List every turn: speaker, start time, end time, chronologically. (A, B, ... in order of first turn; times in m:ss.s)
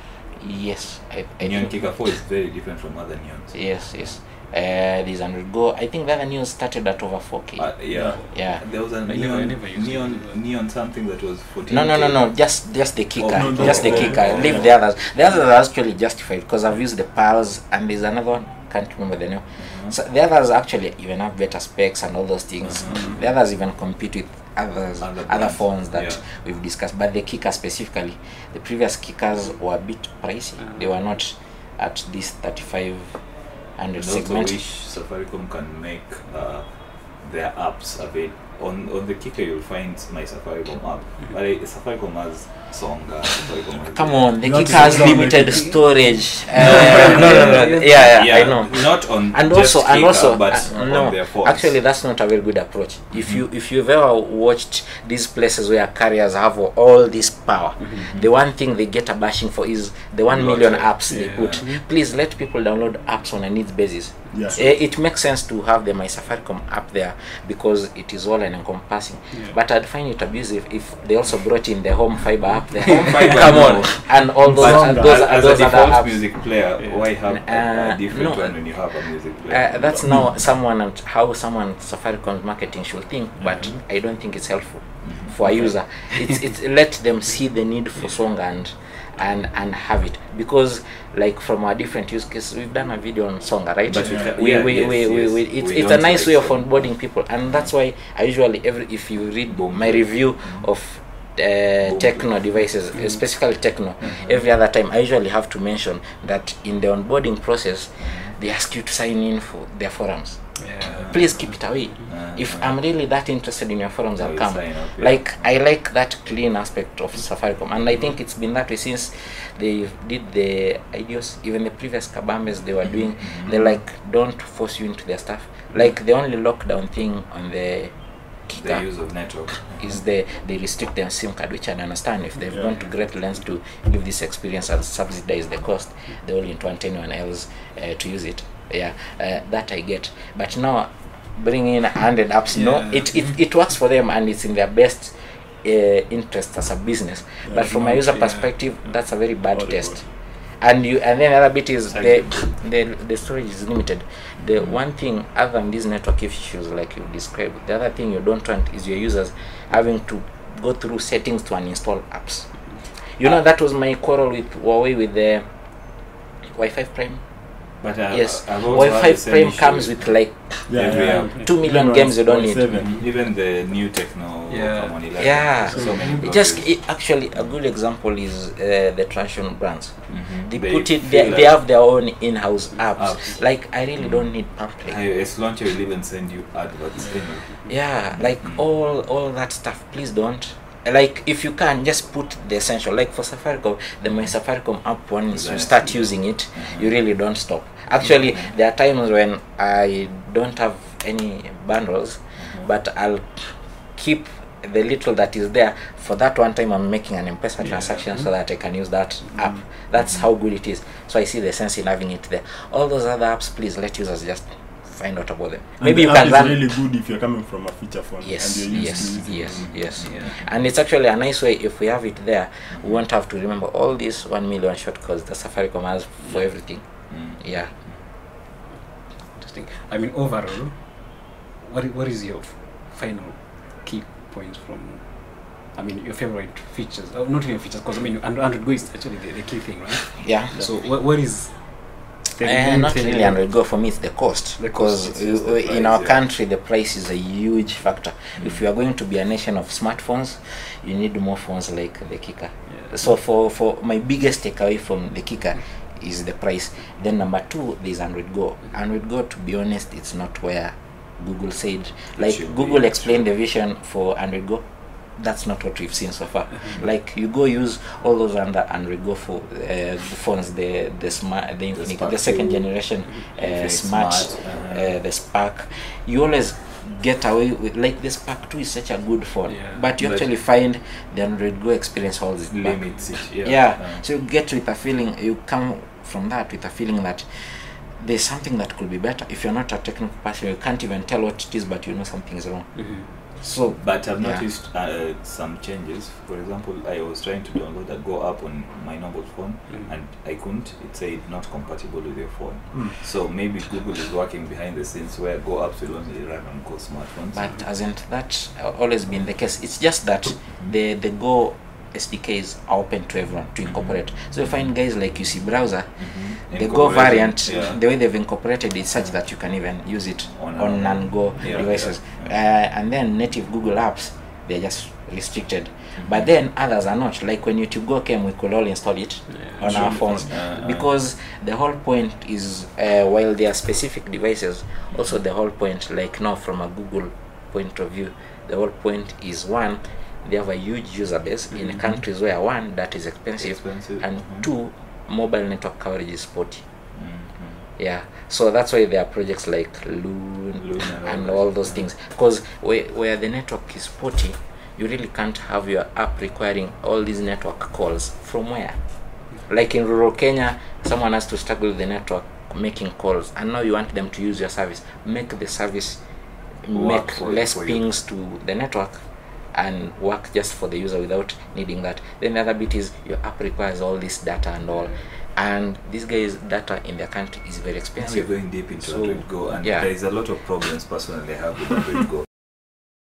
0:00.4-0:02.0 A
0:01.4-0:03.7 B
0:03.5-0:08.6 A
0:07.6-0:12.6 B
0:07.9-0:08.2 C
0:08.1-0:10.4 D
0:11.7-0:34.6 A
0:13.2-0:14.8 B
0:13.3-0:14.8 C
0:19.6-0:19.9 B
0:22.7-0:23.3 B
0:22.9-0:23.2 C
0:25.0-0:26.2 B
0:30.6-0:30.9 D
0:34.0-0:44.3 B
0:43.9-1:16.4 A
0:44.4-0:45.9 C
0:46.6-0:51.8 B
0:46.6-0:48.1 D
0:53.1-0:53.4 B
1:00.3-1:01.6 B
1:01.1-1:01.8 D
1:04.3-1:04.6 C
1:12.8-1:20.1 B
1:13.0-1:13.9 D
1:14.4-1:15.2 C
1:16.8-1:17.1 D
1:17.3-2:47.3 A
1:20.0-1:20.3 C
1:25.0-1:25.4 B
1:33.9-1:37.7 B
1:34.0-1:34.3 C
1:39.5-1:40.7 B
1:41.9-1:42.6 B
1:44.0-1:44.3 B
1:48.0-1:48.3 B
1:50.6-1:52.0 D
1:50.8-1:52.7 B
1:54.2-1:55.4 B
2:02.9-2:03.7 B
2:08.6-2:09.8 B
2:22.6-2:23.2 D
2:27.4-2:27.9 C
2:28.0-2:28.5 D
2:29.5-2:30.0 C
2:31.9-2:32.5 B
2:34.4-2:34.8 B
2:47.8-2:50.2 B
2:48.1-2:52.9 A
2:50.7-2:53.0 C
2:50.7-2:51.4 B
2:51.1-2:51.5 D
2:52.7-2:56.9 B
2:54.5-2:55.0 D
2:55.2-3:05.0 A
2:55.7-2:56.0 C
2:55.8-2:56.2 D
3:00.1-3:01.6 B
3:03.0-3:03.4 B
3:04.0-3:04.3 B
3:04.8-3:08.6 B
3:07.0-3:07.8 D
3:07.6-3:36.6 A
3:15.3-3:16.9 B
3:18.3-3:18.5 B
3:22.4-3:22.7 B
3:27.6-3:28.3 D
3:29.4-3:29.6 C
3:30.0-3:30.2 B
3:35.8-3:39.8 C
3:38.2-3:47.7 A
3:38.7-3:40.4 B
3:40.0-3:40.3 D
3:42.8-3:43.0 B
3:46.2-3:46.5 D
3:47.1-3:48.0 B
3:48.7-4:03.4 D
4:00.2-4:00.6 A
4:02.4-4:54.5 A
4:04.6-4:05.0 D
4:04.8-4:06.2 B
4:12.7-4:13.0 D
4:22.2-4:23.3 B
4:31.8-4:32.8 B
4:33.4-4:34.9 B
4:39.4-4:39.9 D
4:40.0-4:40.3 B
4:42.5-4:44.0 B
4:52.8-4:53.1 D
4:53.8-5:07.5 B
4:59.7-4:59.9 D
5:07.3-5:46.6 A
5:13.7-5:14.0 B
5:16.0-5:17.8 B
5:20.4-5:22.3 B
5:26.0-5:26.3 B
5:29.3-5:30.2 D
5:29.6-5:30.9 B
5:43.4-5:44.5 B
5:47.0-5:47.6 B
5:47.8-6:06.0 A
5:50.6-5:51.8 B
6:06.6-6:19.9 A
6:06.7-6:07.8 B
6:18.0-6:22.2 B